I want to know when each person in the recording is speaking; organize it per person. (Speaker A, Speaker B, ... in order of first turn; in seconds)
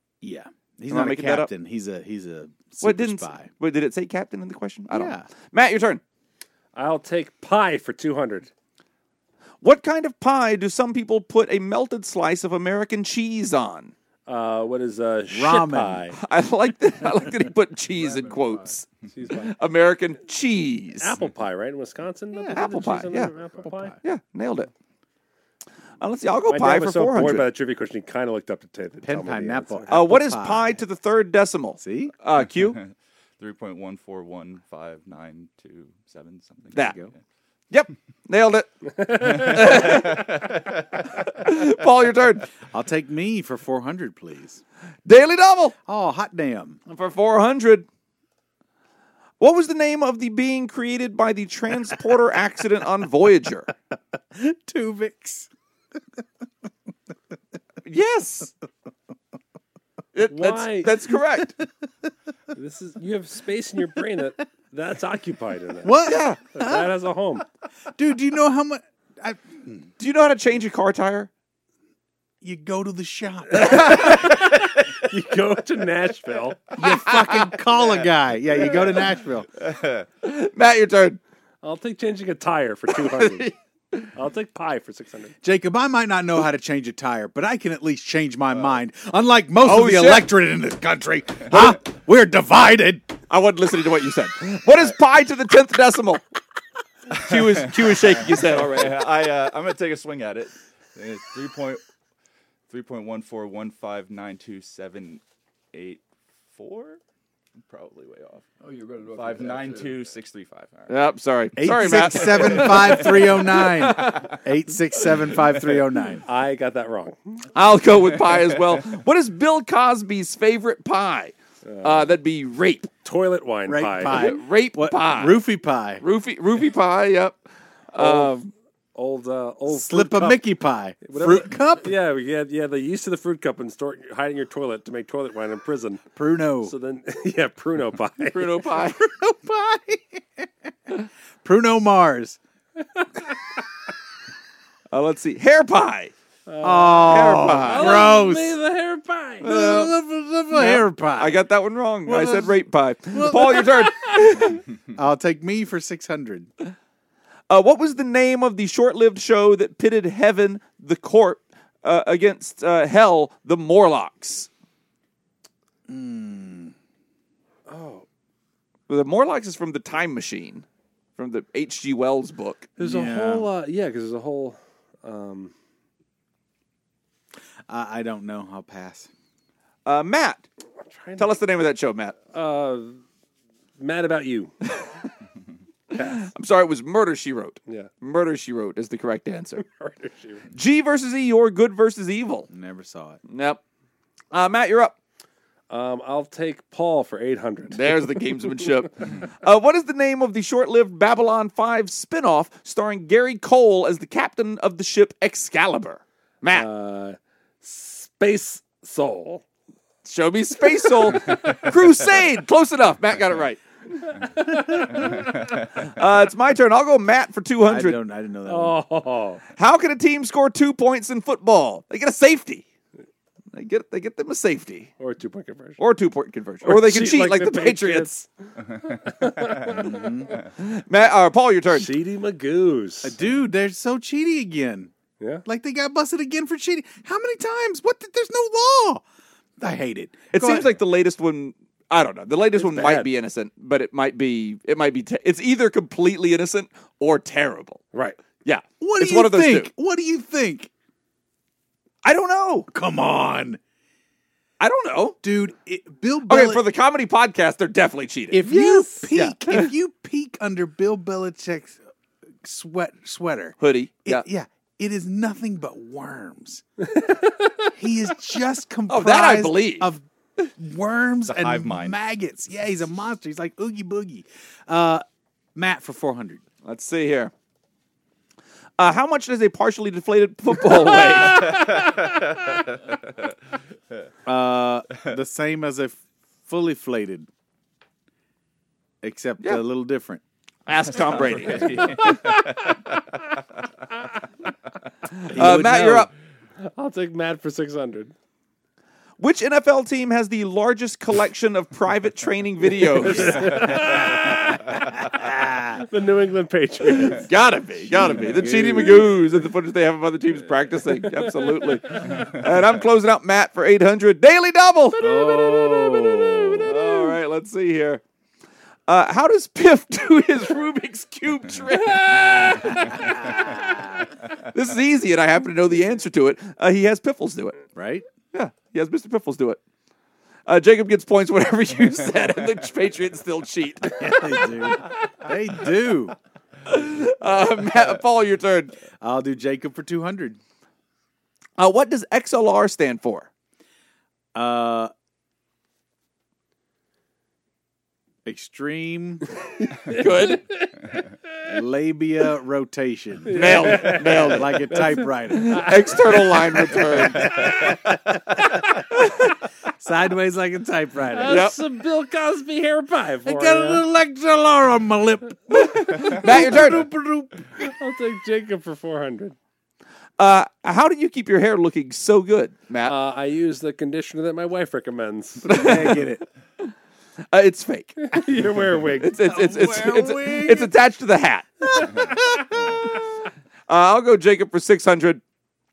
Speaker A: 0.2-3.5, 4.9-5.3, 15.3-16.1, 22.3-22.8, 23.6-24.0, 29.0-30.8, 31.8-32.1, 36.8-37.1, 42.6-44.6, 45.9-46.8, 54.3-55.5, 65.8-66.9, 68.0-69.9, 72.4-74.3, 76.8-79.5, 85.4-93.2, 111.5-116.2, 123.7-126.0, 129.7-131.9, 136.2-136.7, 138.9-142.4, 146.6-148.6, 149.4-151.4, 152.0-156.5, 165.9-166.7, 172.8-173.5, 177.7-179.1, 192.5-193.2, 217.6-218.8, 229.7-230.3, 233.0-234.9, 235.4-239.0, 239.6-240.7, 248.8-250.7, 252.7-253.6, 255.2-256.6, 258.3-261.8, 262.4-266.6, 267.7-275.0, 275.5-276.4, 284.2-287.3, 289.0-290.2, 295.3-296.1, 304.9-305.8, 307.9-309.1, 315.0-316.7, 323.0-324.0, 327.7-328.1, 334.0-336.1, 339.0-340.4, 344.3-344.9, 348.2-349.3, 351.5-355.9, 356.7-357.8, 358.5-358.8, 359.7-361.4, 363.2-367.5, 375.4-376.2, 379.2-380.7, 381.9-382.5
Speaker B: 0.9-1.5, 2.8-6.0, 9.6-13.9, 16.2-21.1, 22.5-23.3, 24.0-24.7, 26.0-27.5, 29.9-32.8, 37.7-38.7, 39.3-40.4, 41.2-42.5, 45.0-45.7, 46.9-47.9, 49.4-53.7, 57.8-58.5, 60.1-61.5, 66.0-66.4, 70.0-71.3, 73.7-74.1, 77.2-77.4, 79.7-81.2, 82.9-84.1, 89.6-90.3, 93.3-96.2, 97.1-99.0, 110.9-114.3, 117.5-122.9, 124.1-125.4, 126.0-127.4, 127.9-128.5, 138.2-139.0, 144.9-146.1, 147.0-148.1, 149.4-149.9, 150.5-154.6, 157.5-164.5, 168.9-170.6, 171.2-172.8, 179.8-180.4, 181.2-182.2, 185.9-189.6, 190.5-192.5, 193.3-193.6, 194.3-194.9, 197.7-206.7, 210.0-214.1, 215.6-218.0, 219.6-222.6, 223.5-224.9, 225.8-228.2, 230.6-231.9, 240.3-247.8, 248.4-249.7, 252.0-252.7, 254.6-255.2, 256.3-258.5, 259.1-259.7, 263.6-264.2, 268.9-269.9, 276.6-277.3, 278.8-281.7, 290.7-292.0, 295.2-296.1, 299.2-303.9, 307.2-316.0, 316.6-318.0, 318.9-323.5, 324.3-327.6, 328.3-329.6, 330.5-334.5, 336.6-338.7, 341.6-343.3, 349.9-350.4, 353.3-354.6, 355.3-357.6, 361.3-361.6, 365.9-366.9, 370.2-372.9, 375.4-376.0, 377.3-378.1, 379.0-382.0, 383.7-385.2
Speaker C: 6.7-8.5, 14.3-16.1, 19.1-19.6, 21.0-24.0, 26.5-29.9, 38.9-40.4, 60.3-61.0, 62.5-66.0, 66.5-67.4, 73.5-76.8, 81.6-83.5, 84.1-85.3, 116.2-117.5, 121.6-122.1, 123.0-124.3, 128.0-128.3, 128.9-130.4, 131.0-136.0, 136.6-138.5, 142.8-143.6, 146.5-149.5, 167.7-168.0, 172.8-175.5, 180.8-181.3, 182.3-183.0, 183.8-184.7, 186.0-186.2, 187.7-187.9, 189.6-190.4, 195.7-198.7, 206.5-209.4, 210.7-211.6, 214.2-215.2, 218.4-219.4, 225.0-225.8, 226.6-228.1, 228.8-230.3, 231.7-233.1, 242.5-243.1, 247.9-248.2, 258.5-259.1, 267.0-267.5, 280.8-282.1, 291.7-292.8, 296.6-298.1, 302.8-307.3, 321.7-323.7, 349.7-350.7, 353.2-356.6, 357.1-357.5, 361.1-363.8, 365.8-366.8, 367.6-369.4, 372.8-375.9, 378.0-379.2
Speaker D: 17.9-18.8, 108.6-110.0
Speaker E: 32.8-37.0, 39.5-39.8, 97.1-101.8, 102.7-105.2, 105.7-107.0, 107.6-108.5, 109.1-110.9, 112.5-113.0, 271.3-272.0, 291.3-292.4